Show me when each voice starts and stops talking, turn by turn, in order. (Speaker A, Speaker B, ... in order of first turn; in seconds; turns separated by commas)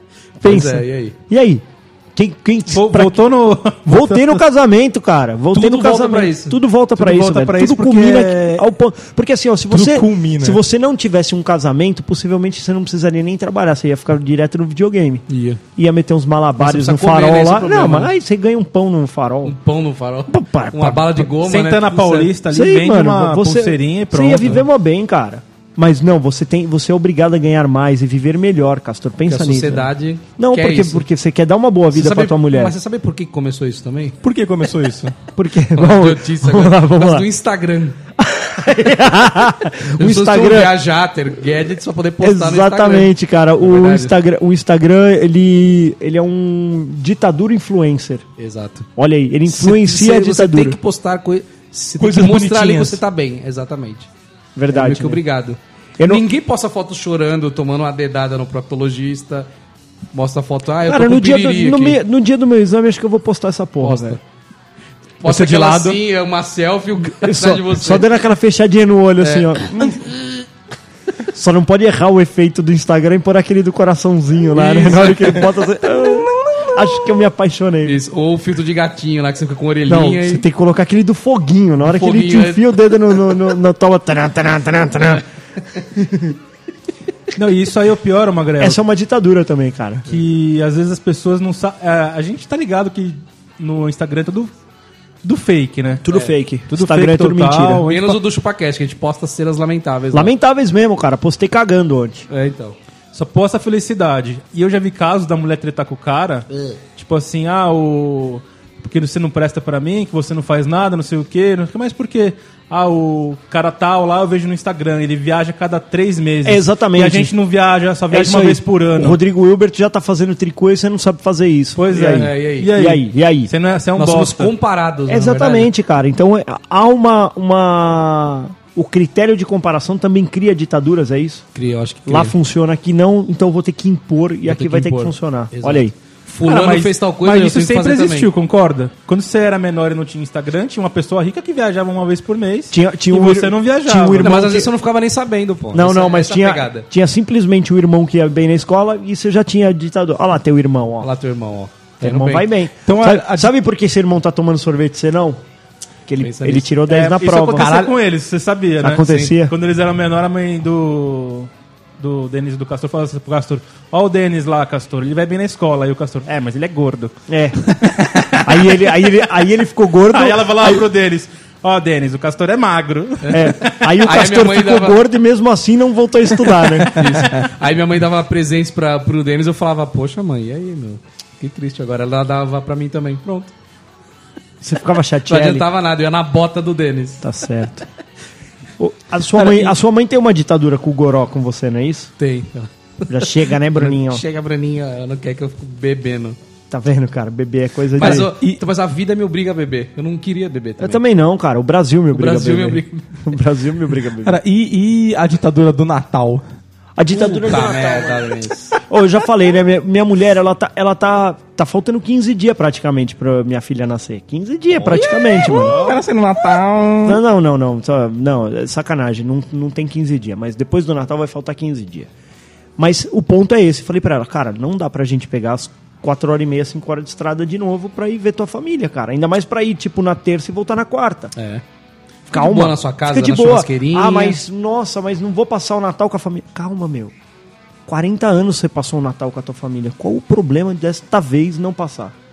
Speaker A: 0.4-3.2, Speaker B: 0.4-1.1, Speaker C: 2.7-4.4, Speaker A: 3.8-15.2, Speaker B: 5.5-6.6, Speaker C: 7.0-8.6, Speaker D: 9.7-10.6, Speaker B: 15.3-15.6, Speaker A: 15.8-19.6, Speaker B: 16.6-18.1, Speaker B: 19.4-22.3, Speaker A: 20.3-21.3, Speaker C: 21.4-24.6, Speaker A: 22.5-32.8, Speaker B: 29.2-31.1, Speaker B: 31.9-34.2, Speaker D: 34.2-35.1, Speaker A: 35.3-37.3, Speaker B: 35.8-38.0, Speaker A: 38.2-40.8, Speaker B: 40.0-44.1, Speaker A: 42.2-48.2, Speaker B: 48.4-48.9, Speaker A: 49.0-50.8, Speaker B: 49.5-54.1, Speaker D: 52.0-53.0, Speaker A: 54.5-55.2, Speaker B: 54.7-59.5, Speaker A: 56.0-56.3, Speaker B: 60.1-62.0, Speaker A: 60.8-64.2, Speaker B: 63.8-64.2, Speaker B: 65.2-68.1, Speaker D: 65.2-66.0, Speaker A: 67.0-70.1, Speaker B: 69.2-69.6, Speaker A: 71.3-78.0, Speaker B: 74.5-75.5, Speaker D: 76.0-76.9, Speaker B: 77.8-80.4, Speaker A: 79.9-85.2, Speaker B: 81.8-82.7, Speaker A: 85.8-86.4, Speaker C: 87.4-88.8, Speaker A: 88.6-90.1, Speaker C: 90.1-94.5, Speaker C: 95.2-96.0, Speaker A: 96.0-97.9, Speaker C: 96.7-98.2, Speaker B: 97.9-100.3, Speaker A: 100.1-102.3, Speaker B: 102.3-102.8, Speaker C: 103.1-119.2, Speaker A: 116.4-117.3, Speaker A: 118.1-123.5, Speaker C: 121.8-124.5, Speaker B: 122.0-122.7, Speaker B: 124.0-125.7, Speaker A: 125.1-131.4, Speaker B: 131.5-132.3, Speaker A: 132.1-135.9, Speaker B: 134.5-138.3, Speaker C: 136.4-144.4, Speaker A: 142.7-144.7, Speaker B: 144.2-146.8, Speaker A: 145.7-151.1, Speaker B: 151.0-152.5, Speaker A: 152.0-155.4, Speaker D: 152.8-153.5, Speaker A: 156.1-157.8, Speaker B: 156.2-156.7, Speaker C: 156.9-167.1, Speaker D: 157.5-157.9, Speaker A: 158.8-159.5, Speaker A: 167.3-167.8, Speaker C: 167.8-168.4, Speaker A: 168.4-170.9, Speaker C: 170.1-173.8, Speaker B: 173.2-175.0, Speaker A: 173.3-177.1, Speaker B: 176.9-183.5, Speaker A: 184.6-185.7, Speaker B: 185.2-187.2, Speaker A: 187.2-187.8, Speaker A: 188.8-192.1, Speaker B: 189.3-189.7, Speaker B: 192.2-196.4, Speaker A: 193.1-194.2, Speaker A: 196.7-198.3, Speaker D: 198.0-198.6, Speaker B: 198.0-201.0, Speaker A: 200.8-204.4, Speaker B: 202.1-203.1, Speaker D: 204.2-206.4, Speaker A: 207.0-208.3, Speaker B: 207.1-208.8, Speaker A: 208.9-215.9, Speaker D: 214.9-217.2, Speaker B: 215.6-215.9, Speaker A: 217.0-222.1, Speaker A: 222.8-231.3, Speaker B: 231.3-231.6, Speaker A: 232.3-237.1, Speaker B: 232.3-234.4, Speaker A: 237.9-242.1